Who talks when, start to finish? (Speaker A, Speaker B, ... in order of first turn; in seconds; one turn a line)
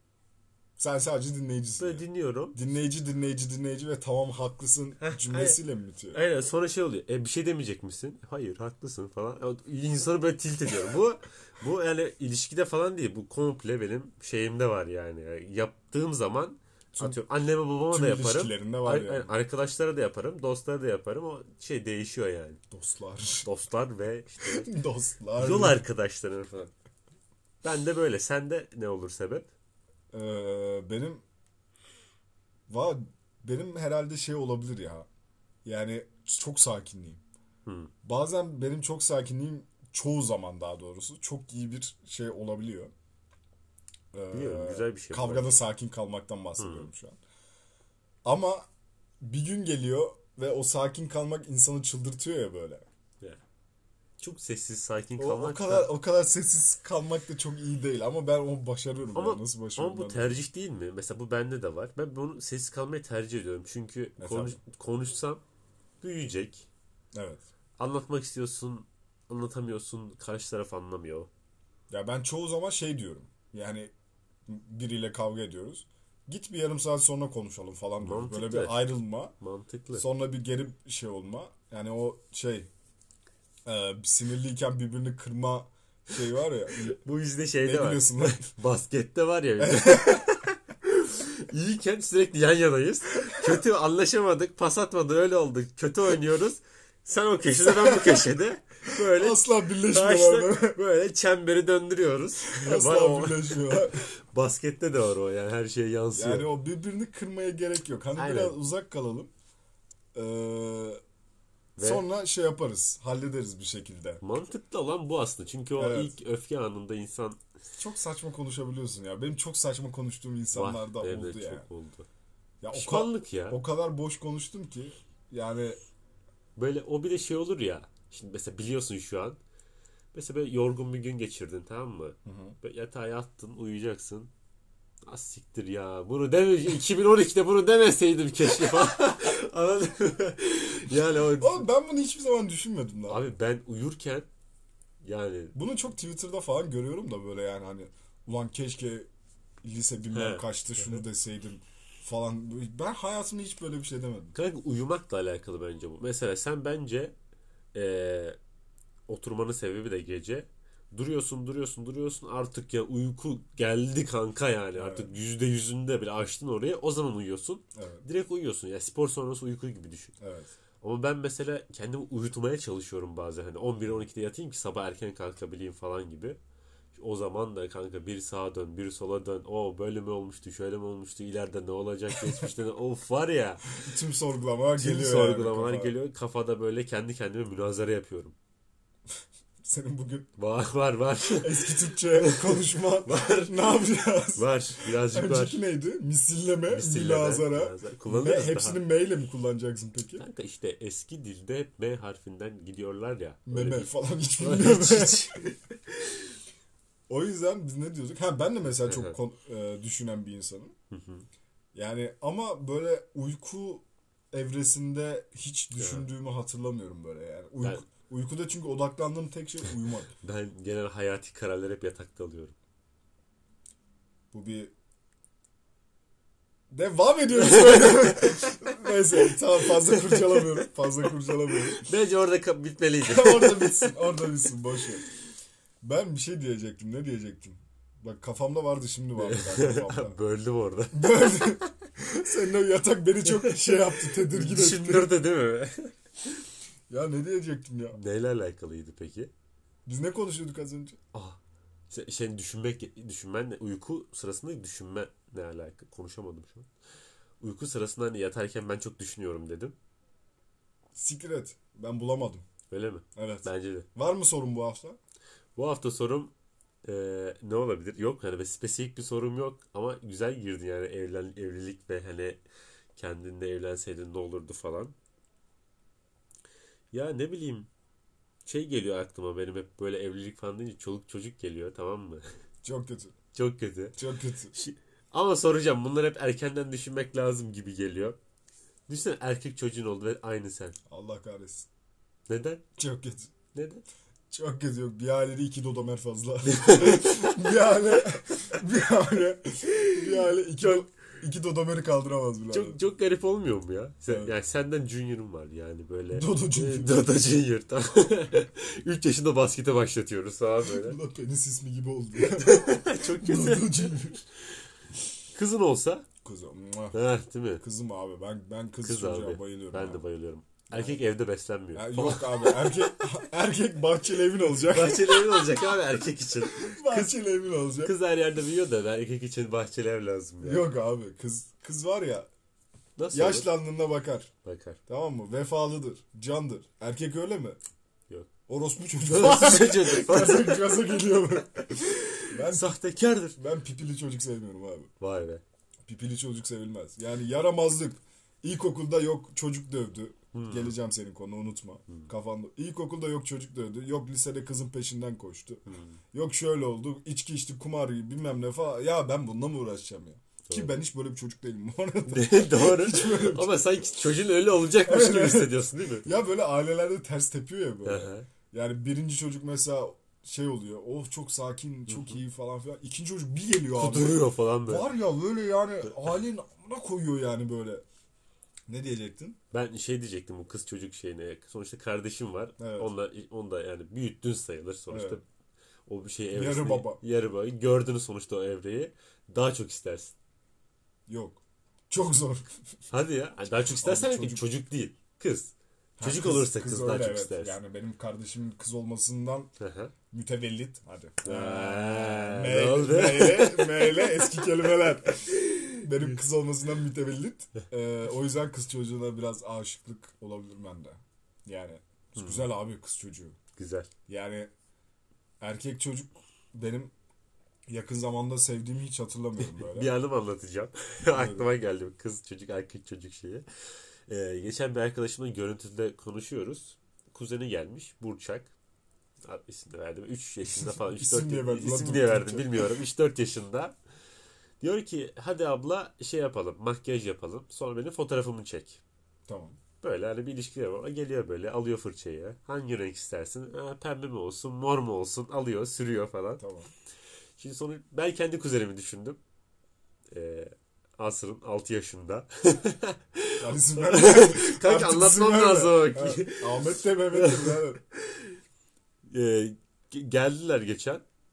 Speaker A: 0.8-6.2
Speaker B: 1.8-2.6
Speaker B: 5.0-5.6
Speaker B: 6.1-22.6
Speaker A: 17.0-17.2
Speaker A: 17.9-19.3
Speaker A: 22.7-23.5
Speaker B: 23.4-24.7
Speaker A: 24.4-25.8
Speaker B: 25.4-26.7
Speaker B: 27.6-29.5
Speaker A: 30.1-31.2
Speaker A: 32.7-35.1
Speaker A: 35.6-37.2
Speaker B: 37.7-37.9
Speaker A: 38.0-42.9
Speaker A: 44.1-47.2
Speaker B: 44.3-45.6
Speaker B: 46.6-46.9
Speaker A: 48.2-48.7
Speaker A: 49.2-52.9
Speaker B: 54.2-55.9
Speaker A: 55.2-60.4
Speaker B: 59.1-65.4
Speaker A: 64.2-64.6
Speaker B: 66.0-66.7
Speaker A: 67.1-67.4
Speaker B: 67.8-71.3
Speaker A: 71.9-73.9
Speaker A: 74.5-79.3
Speaker B: 78.0-78.9
Speaker B: 79.4-80.0
Speaker A: 80.0-82.7
Speaker A: 83.7-87.0
Speaker B: 87.0-106.5
Speaker A: 87.6-88.5
Speaker A: 89.6-90.3
Speaker A: 97.6-98.3
Speaker A: 99.0-100.8
Speaker A: 102.5-104.0
Speaker A: 106.1-109.3
Speaker B: 108.2-108.6
Speaker A: 110.2-111.0
Speaker B: 111.8-112.0
Speaker A: 111.8-114.2
Speaker B: 114.2-117.4
Speaker A: 115.8-116.2
Speaker A: 117.8-121.7
Speaker B: 120.5-122.1
Speaker A: 122.6-125.8
Speaker B: 122.7-123.6
Speaker B: 126.6-129.4
Speaker B: 130.1-134.3
Speaker A: 132.2-132.6
Speaker B: 135.1-141.7
Speaker A: 141.4-143.2
Speaker B: 143.1-144.3
Speaker B: 145.0-145.5
Speaker A: 145.6-149.1
Speaker A: 149.6-154.3
Speaker B: 150.1-151.0
Speaker B: 154.3-157.2
Speaker B: 157.7-158.4
Speaker B: 159.1-170.1
Speaker A: 164.8-165.2
Speaker A: 167.8-168.1
Speaker A: 170.2-170.5
Speaker B: 170.8-176.4
Speaker B: 176.9-183.7
Speaker A: 183.8-186.0
Speaker B: 184.8-188.3
Speaker A: 189.6-190.3
Speaker B: 190.4-195.6
Speaker A: 191.3-200.2
Speaker B: 196.7-198.8
Speaker B: 200.2-206.2
Speaker A: 203.5-205.4
Speaker A: 207.1-210.7
Speaker B: 208.9-209.2
Speaker B: 210.9-211.3
Speaker A: 211.7-220.1
Speaker B: 215.8-216.1
Speaker B: 220.2-222.6
Speaker A: 224.3-224.7
Speaker A: 226.7-231.9
Speaker B: 227.3-230.7
Speaker B: 231.8-234.1
Speaker A: 233.1-235.1
Speaker A: 235.8-240.2
Speaker B: 239.2-241.6
Speaker A: 240.9-245.1
Speaker B: 243.4-245.9
Speaker A: 246.9-248.0
Speaker B: 247.9-249.3
Speaker A: 249.9-251.0
Speaker B: 251.9-256.7
Speaker B: 257.4-259.8
Speaker A: 260.9-262.4
Speaker B: 262.7-263.9
Speaker A: 263.2-265.0
Speaker B: 265.6-266.3
Speaker B: 266.8-272.4
Speaker B: 273.0-274.9
Speaker B: 276.9-277.7
Speaker B: 278.5-282.2
Speaker A: 282.6-283.1
Speaker B: 283.3-284.0
Speaker A: 284.0-284.5
Speaker B: 284.5-288.2
Speaker B: 288.9-290.8
Speaker A: 290.9-291.7
Speaker B: 292.3-292.6
Speaker A: 292.8-293.3
Speaker B: 293.5-293.8
Speaker A: 294.3-302.8
Speaker B: 296.5-297.4
Speaker B: 299.7-300.9
Speaker B: 302.5-311.0
Speaker A: 304.1-304.4
Speaker A: 306.1-307.2
Speaker A: 310.7-314.2
Speaker B: 312.2-314.1
Speaker B: 315.3-316.1
Speaker A: 316.2-317.0
Speaker B: 316.9-317.6
Speaker A: 317.6-320.0
Speaker B: 318.8-323.1
Speaker A: 320.7-321.0
Speaker A: 321.7-325.7
Speaker B: 324.4-327.2
Speaker A: 326.4-327.9
Speaker B: 327.8-330.7
Speaker A: 330.4-332.3
Speaker B: 333.0-333.5
Speaker A: 333.1-334.3
Speaker B: 334.4-334.8
Speaker A: 334.9-337.6
Speaker A: 338.5-342.8
Speaker B: 339.1-341.1
Speaker B: 341.8-343.4
Speaker A: 343.4-344.9
Speaker B: 345.0-345.4
Speaker A: 345.9-363.6
Speaker B: 350.3-350.8
Speaker B: 355.7-356.0
Speaker B: 360.4-360.8
Speaker B: 362.1-366.1
Speaker A: 364.8-377.8
Speaker B: 367.9-368.3
Speaker B: 371.9-372.2
Speaker B: 373.7-374.9
Speaker A: 378.7-379.4
Speaker B: 379.5-385.2
Speaker A: 382.6-382.9
Speaker A: 384.9-385.2
Speaker B: 385.9-390.1
Speaker A: 386.3-387.0
Speaker A: 391.1-392.6
Speaker B: 392.9-397.6
Speaker A: 393.5-394.5
Speaker A: 396.0-399.5
Speaker B: 399.6-399.9
Speaker A: 400.1-413.4
Speaker B: 401.2-406.1
Speaker B: 412.1-412.5
Speaker B: 413.6-413.9
Speaker A: 414.1-414.5
Speaker A: 415.4-416.9
Speaker A: 417.7-419.9
Speaker B: 419.4-423.4
Speaker A: 421.1-421.5
Speaker B: 424.1-428.5
Speaker B: 429.2-433.8
Speaker A: 430.4-432.8
Speaker B: 434.6-438.8
Speaker A: 439.3-439.6
Speaker B: 439.8-446.4
Speaker A: 446.4-446.7
Speaker B: 447.4-449.2
Speaker B: 450.1-458.4
Speaker A: 453.4-457.8
Speaker B: 459.1-461.0